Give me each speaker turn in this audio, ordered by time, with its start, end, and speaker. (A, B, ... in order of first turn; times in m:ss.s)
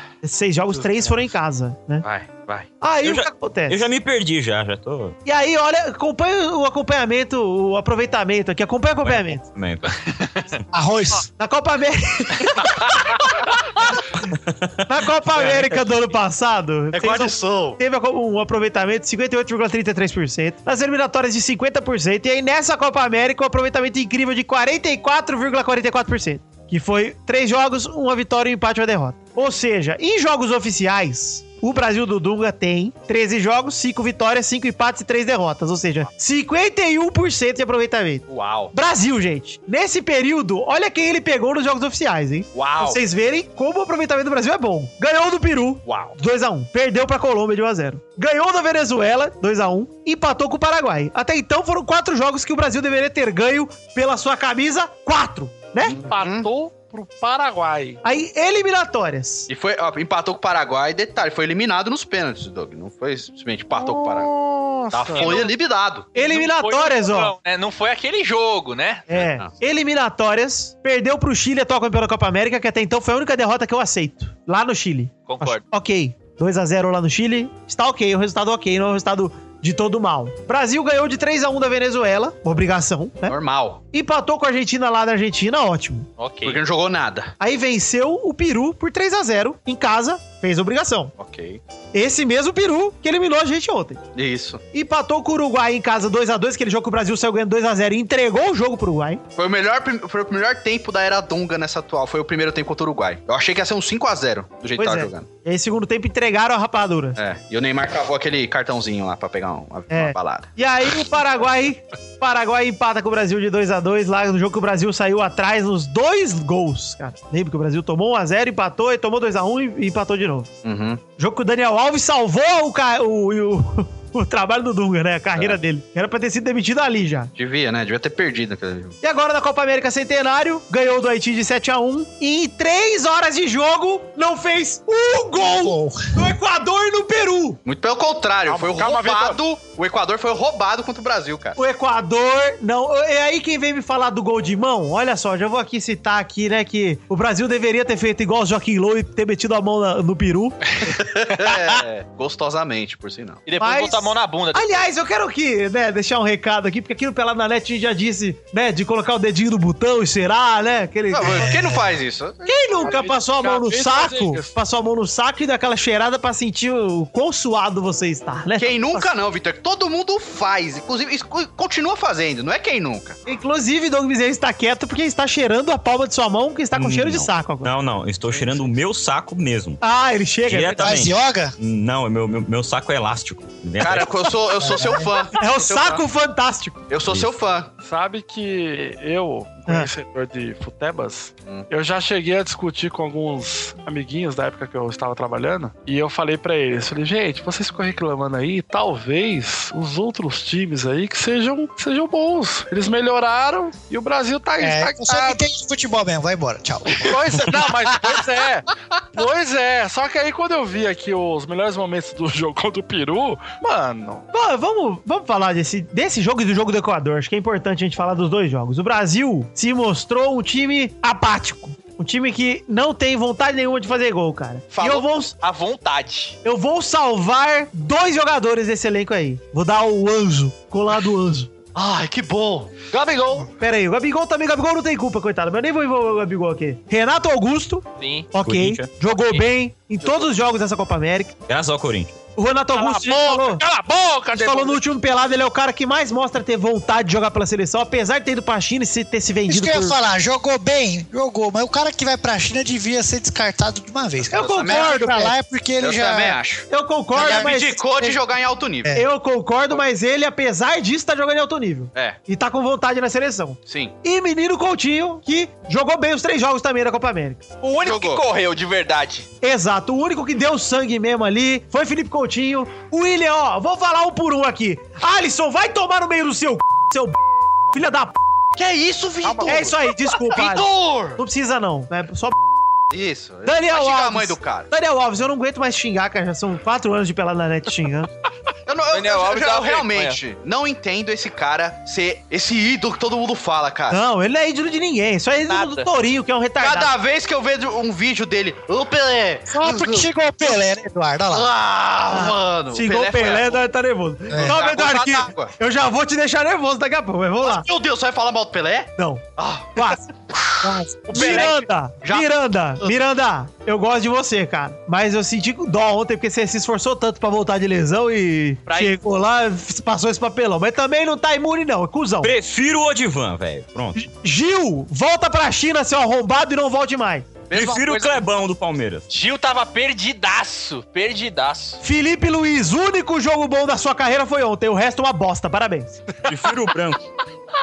0:00.2-0:02.0 A
0:02.0-0:02.7 B
0:02.8-0:03.8 A
0:03.0-0:05.2 C
0:05.2-0:09.4 A
0:09.0-0:09.9 C
0:10.7-0:11.2 D
0:11.4-0:12.7 A
0:14.8-0:56.0 A
0:16.9-0:17.8 E
0:38.3-0:38.7 E
0:42.5-0:43.0 E
0:45.8-0:46.1 E
0:55.8-0:56.5 E
0:55.9-0:58.0 F
0:58.0-0:59.5 A
0:59.5-1:04.3 E
1:03.7-1:05.5 F
1:04.9-1:06.1 E
1:05.2-1:05.5 B
1:06.1-1:09.1 B
1:06.1-1:07.3 A
1:09.1-1:23.4 A
1:09.1-1:09.5 E
1:15.3-1:15.6 B
1:23.2-1:23.8 E
1:23.9-1:26.1 A
1:26.2-1:26.6 B
1:26.4-1:27.3 E
1:27.4-1:31.1 A
1:31.2-1:31.6 E
1:31.9-1:34.0 A
1:34.1-1:34.6 E
1:34.7-1:39.2 A
1:39.4-1:45.3 E
1:44.8-1:47.2 A
1:47.2-1:50.5 E
1:49.9-2:00.5 A
2:00.6-2:01.0 E
2:01.2-2:07.3 A
2:07.4-2:09.0 E
2:09.0-2:17.6 A
2:15.4-2:16.1 D
2:17.6-2:21.6 E
2:18.5-2:19.4 F
2:21.6-2:30.6 A
2:30.9-2:33.4 E
2:33.4-2:34.8 B
2:33.6-2:41.5 A
2:41.1-2:42.6 E
2:41.3-2:41.8 D
2:42.4-2:49.1 A
2:42.8-2:44.5 F
2:48.6-2:53.2 E
2:53.2-2:57.7 A
2:56.7-2:59.8 C
2:59.8-3:01.0 A
3:00.5-3:04.4 C
3:00.8-3:01.5 D
3:03.8-3:06.0 E
3:04.6-3:05.1 D
3:05.3-3:06.8 A
3:06.9-3:07.7 E
3:07.8-3:25.4 F
3:24.6-3:28.2 D
3:27.0-3:34.3 F
3:34.3-3:45.3 A
3:44.7-3:46.4 B
3:46.4-3:51.5 A
3:51.7-3:53.4 E
3:53.6-4:01.3 A
3:58.0-3:58.3 B
3:58.4-3:58.9 C
4:00.0-4:00.3 B
4:01.5-4:02.2 C
4:02.4-4:03.6 A
4:02.8-4:03.5 B
4:03.0-4:04.5 F
4:04.1-4:04.7 B
4:04.3-4:10.0 A
4:09.5-4:16.4 D
4:14.3-4:15.1 E
4:14.3-4:15.3 A
4:15.8-4:19.0 E
4:16.7-4:18.1 A
4:17.2-4:17.5 D
4:18.9-4:27.4 A
4:21.9-4:22.2 E
4:23.7-4:23.9 E
4:27.6-4:29.2 B
4:27.8-4:28.2 E
4:29.4-4:37.2 A
4:37.7-4:38.2 A
4:38.6-4:41.2 E
4:39.4-4:42.4 A
4:42.9-4:44.7 E
4:43.4-4:48.1 A
4:48.7-4:54.0 E
4:48.9-4:50.2 B
4:53.9-4:56.9 A
4:55.5-4:55.9 B
4:56.6-5:00.1 E
4:59.5-5:01.5 D
5:01.3-5:03.6 E
5:02.1-5:07.6 A
5:04.4-5:05.5 E
5:07.4-5:12.9 E
5:09.0-5:10.0 A
5:10.6-5:22.3 A
5:18.7-5:18.9 E
5:22.2-5:24.0 C
5:23.9-5:27.4 A
5:27.5-5:28.1 E
5:27.5-5:29.1 C
5:29.1-5:31.8 B
5:31.8-5:36.0 A
5:36.3-5:37.0 C